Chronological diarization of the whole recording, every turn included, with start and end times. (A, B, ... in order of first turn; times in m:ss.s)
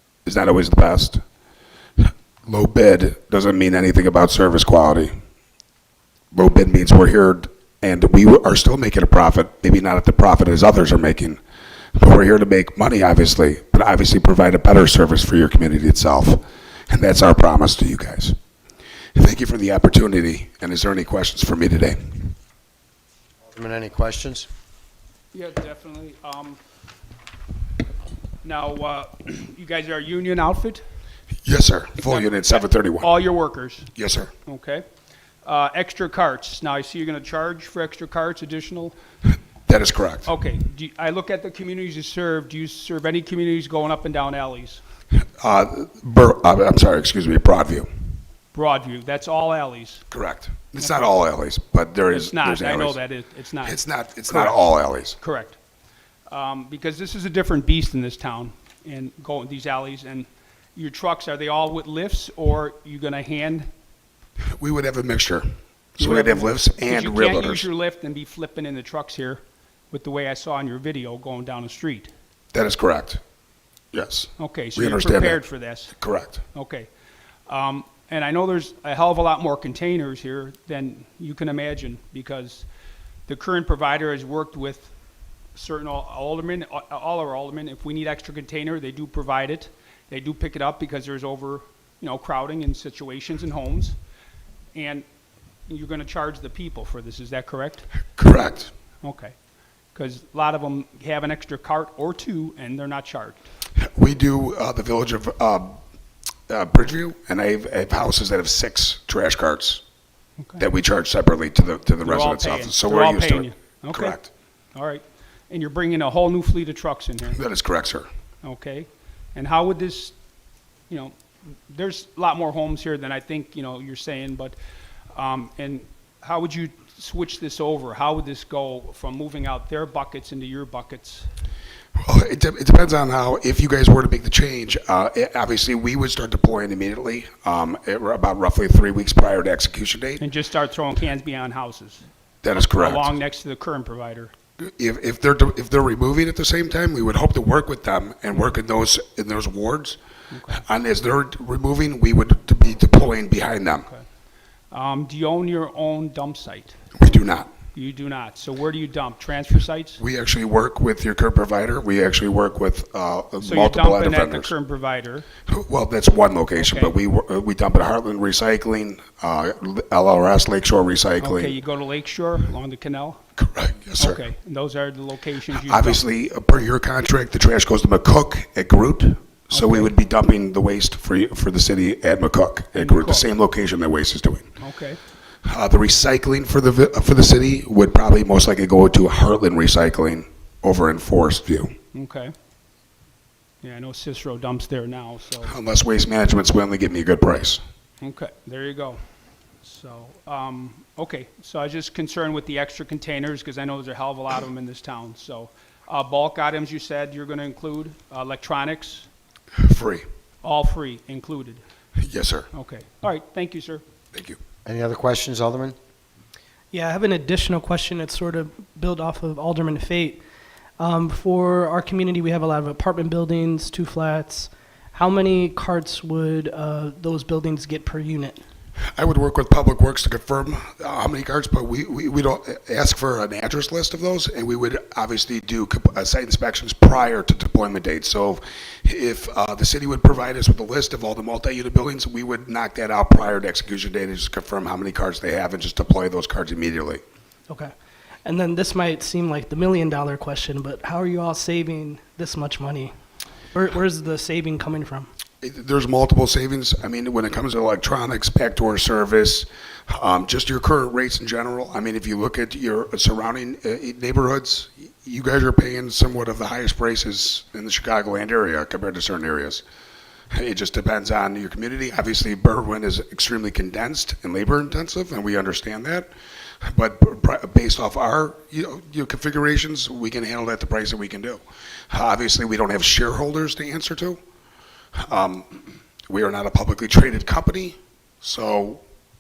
0:00.2-0:01.2 A
0:02.0-0:05.1 A
0:06.3-0:11.4 A
0:12.0-0:18.4 A
0:19.1-0:22.3 A
0:23.4-0:24.5 B
0:25.3-0:26.6 C
0:28.4-0:30.8 C
0:31.4-0:33.1 A
0:32.0-0:33.9 C
0:34.0-0:34.3 A
0:34.4-0:34.8 C
0:35.4-0:39.0 C
0:39.7-0:40.3 A
0:40.3-0:44.8 C
0:45.4-0:47.9 A
0:48.5-0:50.0 C
0:50.1-0:53.0 A
0:50.8-0:51.1 C
0:52.1-0:54.6 C
0:53.6-0:55.2 A
0:55.2-0:55.6 C
0:56.3-1:03.7 C
1:04.6-1:05.4 A
1:06.0-1:07.7 A
1:06.0-1:12.1 C
1:12.5-1:13.2 A
1:13.9-1:15.4 A
1:14.4-1:16.0 C
1:15.9-1:16.4 A
1:16.5-1:16.9 C
1:17.5-1:22.7 C
1:23.3-1:24.9 C
1:25.6-1:34.0 C
1:34.7-1:35.0 C
1:35.7-1:37.9 C
1:38.2-1:38.7 A
1:39.0-1:39.3 C
1:40.0-1:43.4 C
1:43.8-1:45.8 A
1:46.5-1:49.8 A
1:50.6-1:54.3 A
1:52.0-1:54.2 C
1:54.8-1:57.4 C
1:57.3-1:58.1 A
1:58.4-2:00.1 C
2:01.7-2:04.6 C
2:05.1-2:11.3 C
2:12.0-2:20.2 A
2:20.2-2:22.0 C
2:22.4-2:23.1 A
2:22.6-2:24.3 C
2:24.6-2:30.0 A
2:30.3-2:30.6 C
2:30.5-2:33.9 A
2:34.7-2:37.1 C
2:36.9-2:37.5 A
2:37.7-2:40.0 C
2:40.0-2:44.5 A
2:43.4-2:45.3 C
2:45.5-2:51.5 A
2:46.6-2:46.9 C
2:51.2-2:53.2 C
2:53.4-2:54.2 A
2:54.0-2:56.0 C
2:55.6-3:04.5 A
2:59.5-2:59.9 C
3:02.8-3:03.3 C
3:04.6-3:05.0 C
3:05.4-3:11.7 A
3:11.9-3:12.3 C
3:13.6-3:15.5 C
3:15.4-3:17.6 A
3:18.0-3:19.0 C
3:19.6-3:29.1 C
3:29.6-3:30.0 A
3:30.4-3:31.6 C
3:32.0-3:32.5 A
3:32.5-3:33.8 C
3:34.6-3:35.8 B
3:36.7-3:40.2 D
3:40.8-3:48.4 D
3:48.9-4:07.0 A
4:08.2-4:12.9 D
4:13.5-4:15.1 D
4:15.4-4:29.6 A
4:30.3-4:36.1 A
4:36.6-4:44.2 A
4:45.0-4:48.8 A